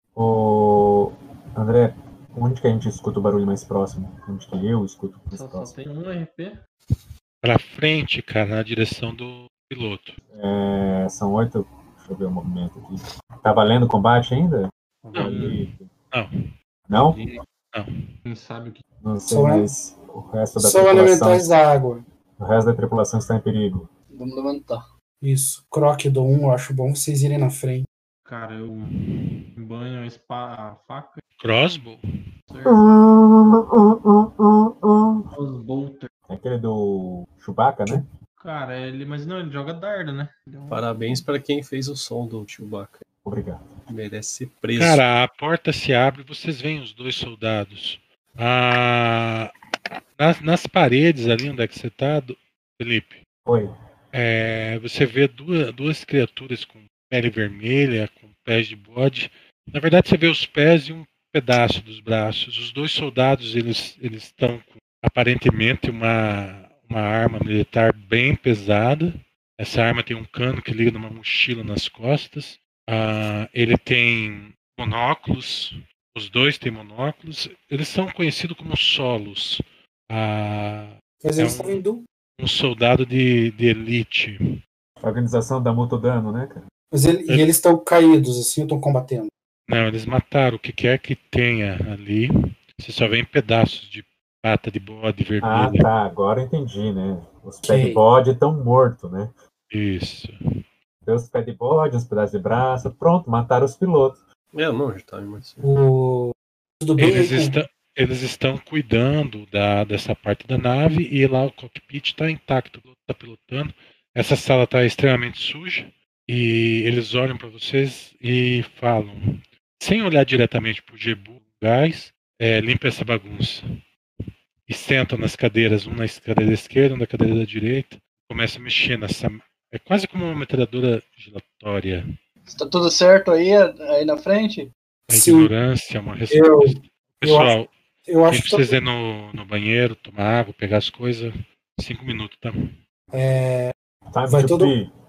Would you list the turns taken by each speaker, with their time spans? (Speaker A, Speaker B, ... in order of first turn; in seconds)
Speaker A: 0.1-5.7, 10.3-15.9, 16.9-17.2, 19.0-21.4, 22.4-23.9, 32.6-35.2, 36.3-38.1, 43.2-43.7, 53.5-53.7, 85.0-86.6, 95.4-99.3, 101.0-104.2, 144.1-144.9
Speaker B: 5.3-6.6, 15.0-15.7, 16.9-17.4, 18.2-18.8, 28.2-28.9, 29.6-31.2, 32.5-32.8, 35.3-36.1, 38.4-41.3
Speaker C: 7.4-10.2, 15.1-15.5, 28.9-29.3, 31.4-32.0, 44.7-49.5, 50.2-53.2, 54.1-81.8, 82.4-84.4, 89.7-95.9, 99.7-100.3, 107.0-123.6, 124.7-132.0, 135.1-137.7, 138.3-142.7
Speaker D: 19.3-19.7, 20.6-22.0, 25.2-27.9, 81.2-82.0, 86.9-89.3, 97.6-98.0, 105.6-107.5, 135.1-135.5, 136.3-137.5, 138.1-138.8, 143.1-143.7, 144.3-144.7
Speaker E: 24.1-24.9, 132.5-134.7
Speaker F: 40.7-43.0, 43.9-45.0, 104.5-105.7